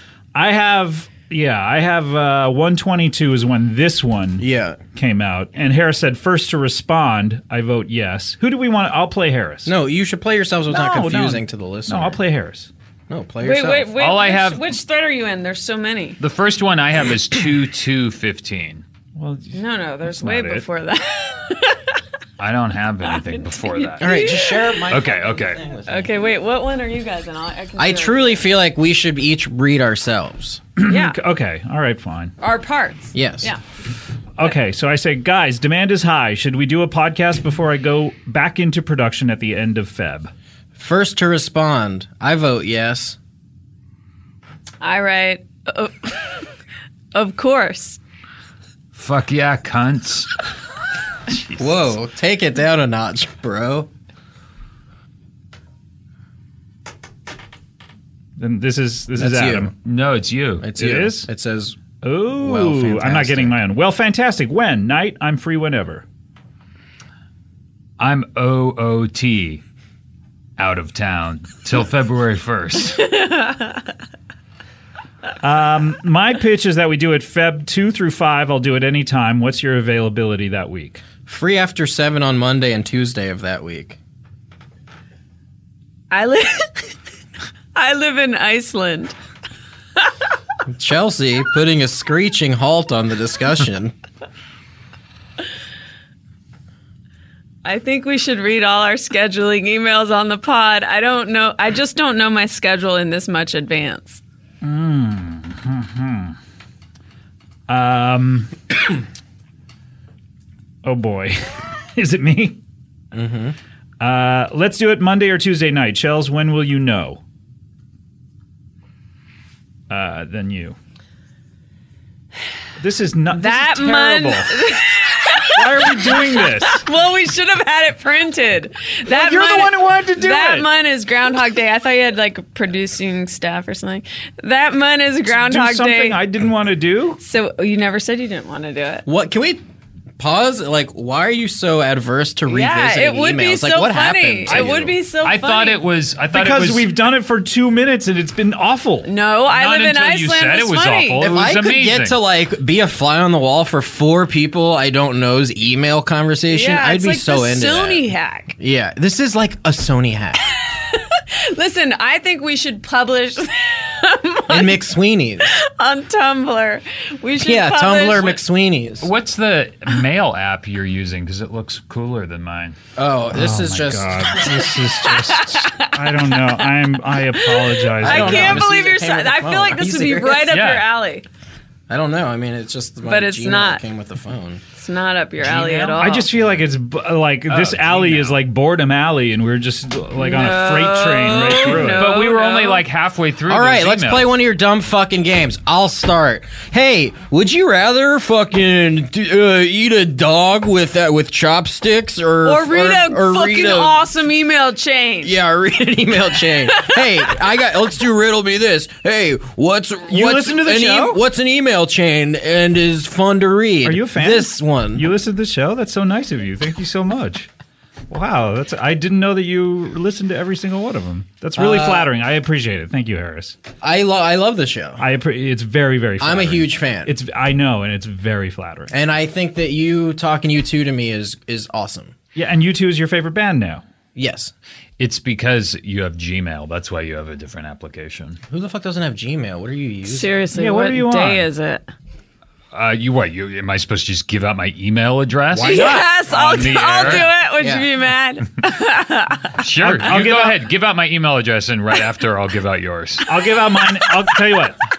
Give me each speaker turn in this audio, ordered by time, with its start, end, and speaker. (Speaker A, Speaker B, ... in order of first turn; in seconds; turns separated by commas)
Speaker A: 0.3-9.7, Speaker B: 4.4-4.8, Speaker B: 9.7-12.2, Speaker A: 10.7-12.7, Speaker B: 13.1-13.9, Speaker C: 13.4-16.2, Speaker D: 14.0-14.7, Speaker D: 16.2-18.9, Speaker A: 19.2-20.6, Speaker C: 19.5-22.0, Speaker D: 22.4-24.3, Speaker C: 23.1-24.9, Speaker B: 24.0-26.2, Speaker D: 24.9-25.6, Speaker C: 25.9-28.5, Speaker B: 27.8-30.6, Speaker A: 30.8-32.3, Speaker C: 30.9-31.2, Speaker C: 32.4-33.6, Speaker B: 33.1-33.5, Speaker A: 34.4-40.3, Speaker B: 40.8-43.2, Speaker C: 44.8-46.5, Speaker C: 47.1-48.0, Speaker D: 48.9-50.3, Speaker D: 51.3-51.9, Speaker B: 51.6-53.9, Speaker A: 58.4-59.7, Speaker B: 59.2-59.8, Speaker D: 59.8-60.7, Speaker B: 60.6-61.8, Speaker A: 60.8-61.3, Speaker A: 62.0-66.0, Speaker B: 62.3-63.6, Speaker D: 68.0-69.6, Speaker D: 70.6-73.1, Speaker C: 73.1-73.8, Speaker A: 75.4-81.0, Speaker B: 81.3-84.0, Speaker C: 86.1-86.9, Speaker C: 87.8-89.2, Speaker B: 90.7-93.9, Speaker C: 97.7-104.2, Speaker A: 104.6-106.4, Speaker A: 107.7-108.5, Speaker A: 110.8-111.4, Speaker A: 112.0-112.6, Speaker B: 113.1-113.6, Speaker A: 114.0-117.2, Speaker A: 119.9-120.8, Speaker A: 122.8-124.5, Speaker C: 123.3-136.2, Speaker A: 125.5-126.8, Speaker A: 129.1-130.7, Speaker A: 135.3-137.2, Speaker C: 137.2-139.1, Speaker B: 139.1-139.6, Speaker B: 140.2-145.0, Speaker C: 142.5-145.8, Speaker D: 144.5-147.0, Speaker A: 146.3-149.1, Speaker C: 149.1-151.2, Speaker D: 149.5-152.2, Speaker B: 151.2-158.0, Speaker C: 156.5-158.6, Speaker B: 158.6-160.4, Speaker C: 160.6-164.8, Speaker B: 164.5-165.6, Speaker C: 165.5-168.4, Speaker B: 167.4-169.1, Speaker D: 169.0-172.8, Speaker B: 173.0-174.6, Speaker A: 173.3-178.7, Speaker C: 175.2-181.3, Speaker B: 178.0-180.6, Speaker D: 180.5-180.9, Speaker B: 181.9-184.6, Speaker C: 183.1-183.8, Speaker C: 184.8-186.3, Speaker D: 185.4-186.6, Speaker A: 186.0-192.1, Speaker D: 187.5-188.4, Speaker C: 190.2-192.8, Speaker D: 191.7-194.3, Speaker B: 193.5-203.9, Speaker C: 202.4-205.3, Speaker B: 205.2-215.1, Speaker C: 206.6-207.0, Speaker A: 210.1-211.2, Speaker A: 213.8-217.5, Speaker A: 218.1-223.6, Speaker B: 221.6-222.1, Speaker B: 223.8-225.0, Speaker A: 225.0-228.9, Speaker B: 226.2-227.1, Speaker B: 228.9-232.2, Speaker A: 232.3-233.8, Speaker B: 234.2-234.5, Speaker D: 235.0-238.4, Speaker B: 238.5-240.3, Speaker C: 240.1-241.9, Speaker A: 240.6-241.4, Speaker D: 242.7-247.3, Speaker A: 245.5-246.1, Speaker C: 245.6-249.5, Speaker B: 247.1-247.9, Speaker D: 249.6-253.3, Speaker A: 249.8-250.6, Speaker A: 253.3-254.8